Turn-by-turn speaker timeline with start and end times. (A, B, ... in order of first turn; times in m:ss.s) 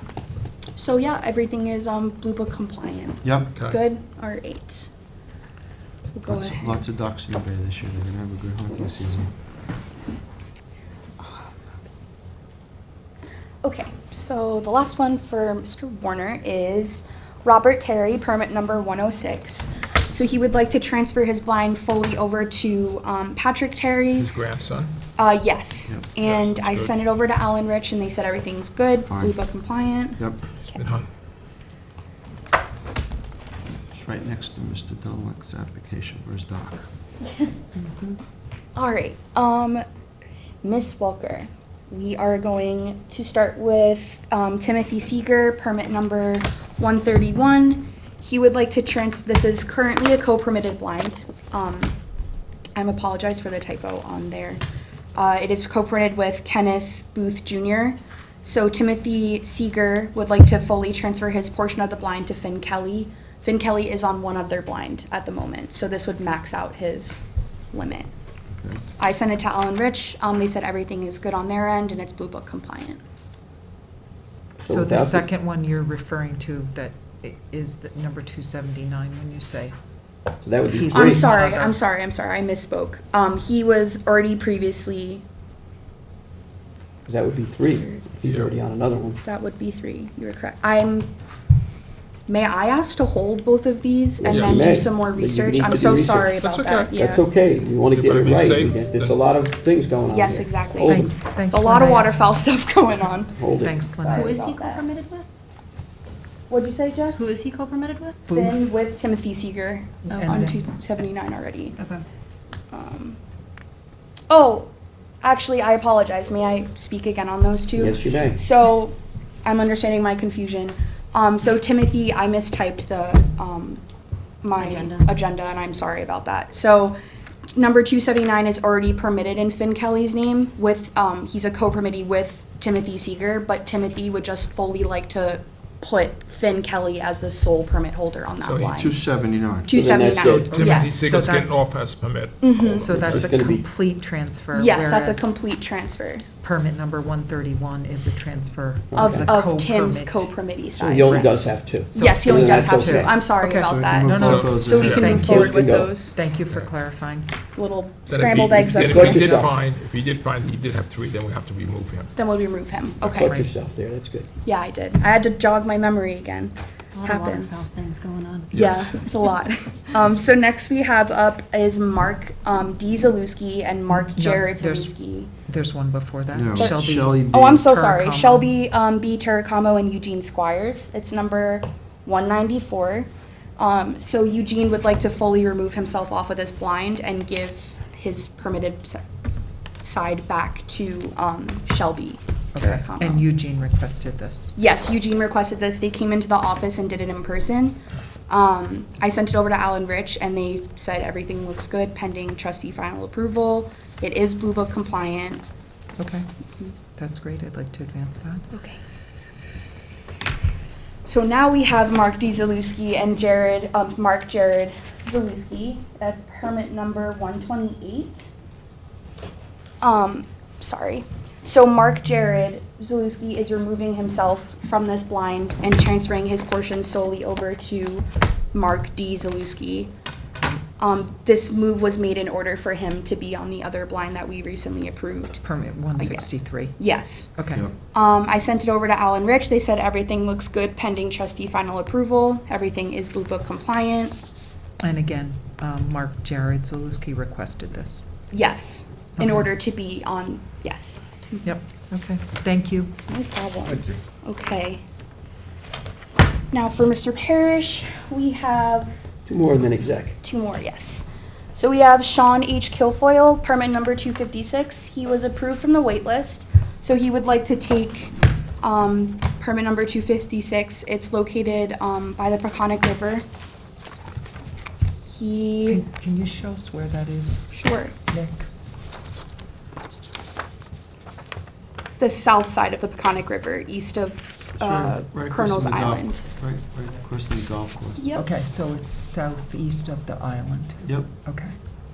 0:00.8-0:04.9 A
0:03.2-0:03.5 B
0:03.5-0:03.8 C
0:06.1-0:06.8 A
0:06.3-0:09.3 B
0:11.2-0:11.6 A
0:13.6-0:24.3 A
0:24.2-0:24.9 C
0:25.2-0:30.8 A
0:26.2-0:27.1 C
0:29.1-0:29.6 B
0:30.7-0:31.1 C
0:33.9-0:36.9 B
0:38.8-0:39.8 A
0:40.6-0:52.0 A
0:52.8-0:54.6 A
0:55.2-1:08.1 A
1:08.6-1:08.8 B
1:09.0-1:13.0 A
1:14.6-1:15.3 D
1:14.7-1:19.8 E
1:20.4-1:21.3 D
1:20.6-1:21.7 E
1:20.9-1:25.2 A
1:27.1-1:29.2 D
1:28.2-1:28.6 C
1:29.2-1:31.1 A
1:32.3-1:37.2 A
1:34.2-1:36.4 D
1:36.4-1:37.0 C
1:37.0-1:41.2 D
1:37.9-1:39.2 C
1:40.1-1:44.8 A
1:40.8-1:42.5 E
1:43.4-1:43.8 D
1:43.5-1:44.3 E
1:44.0-1:45.3 F
1:46.5-1:47.3 A
1:47.1-1:48.3 F
1:48.2-1:51.8 A
1:48.3-1:48.6 E
1:50.0-1:50.5 F
1:50.1-1:50.6 E
1:51.8-1:52.0 F
1:52.7-1:53.2 A
1:54.3-1:54.7 A
1:55.2-2:03.8 A
1:57.8-1:58.4 D
2:04.4-2:07.0 A
2:04.6-2:05.1 F
2:07.5-2:19.0 A
2:18.4-2:18.8 C
2:18.7-2:19.7 B
2:19.6-2:21.0 A
2:19.7-2:20.5 D
2:20.5-2:21.6 E
2:20.5-2:23.3 C
2:22.4-2:22.8 A
2:22.6-2:23.7 D
2:22.8-2:25.4 E
2:24.5-2:26.3 A
2:26.4-2:30.4 E
2:28.9-2:29.3 D
2:29.0-2:36.2 A
2:30.8-2:33.2 D
2:31.0-2:37.3 E
2:33.6-2:34.9 B
2:34.2-2:35.2 C
2:34.9-2:35.9 D
2:37.5-2:39.4 A
2:38.1-2:42.1 C
2:38.7-2:39.5 D
2:42.2-2:43.3 A
2:43.0-2:44.3 D
2:43.2-2:43.5 E
2:44.4-2:47.7 A
2:46.9-2:49.2 F
2:48.5-2:48.9 C
2:48.5-2:55.3 A
2:53.9-2:54.9 E
2:55.4-2:58.5 E
2:56.3-2:57.7 B
2:56.5-3:13.3 A
3:12.5-3:14.5 E
3:14.6-3:25.4 A
3:26.0-3:26.3 E
3:27.0-3:28.4 E
3:28.5-3:28.8 A
3:31.0-3:38.3 A
3:39.8-3:49.9 A
3:50.4-3:50.9 E
3:50.8-4:04.1 A
3:55.4-3:57.6 E
4:04.8-4:08.1 E
4:08.3-4:11.4 A
4:09.2-4:09.5 E
4:11.4-4:12.9 E
4:13.1-4:14.8 A
4:13.6-4:14.0 C
4:16.5-4:19.1 A
4:19.2-4:20.2 D
4:20.2-4:33.2 A
4:35.1-4:35.8 A
4:35.7-4:37.6 E
4:37.5-4:37.9 A
4:38.1-4:38.4 E
4:41.9-4:46.2 A
4:44.6-4:48.0 B
4:48.0-4:48.2 A
4:48.1-4:51.5 E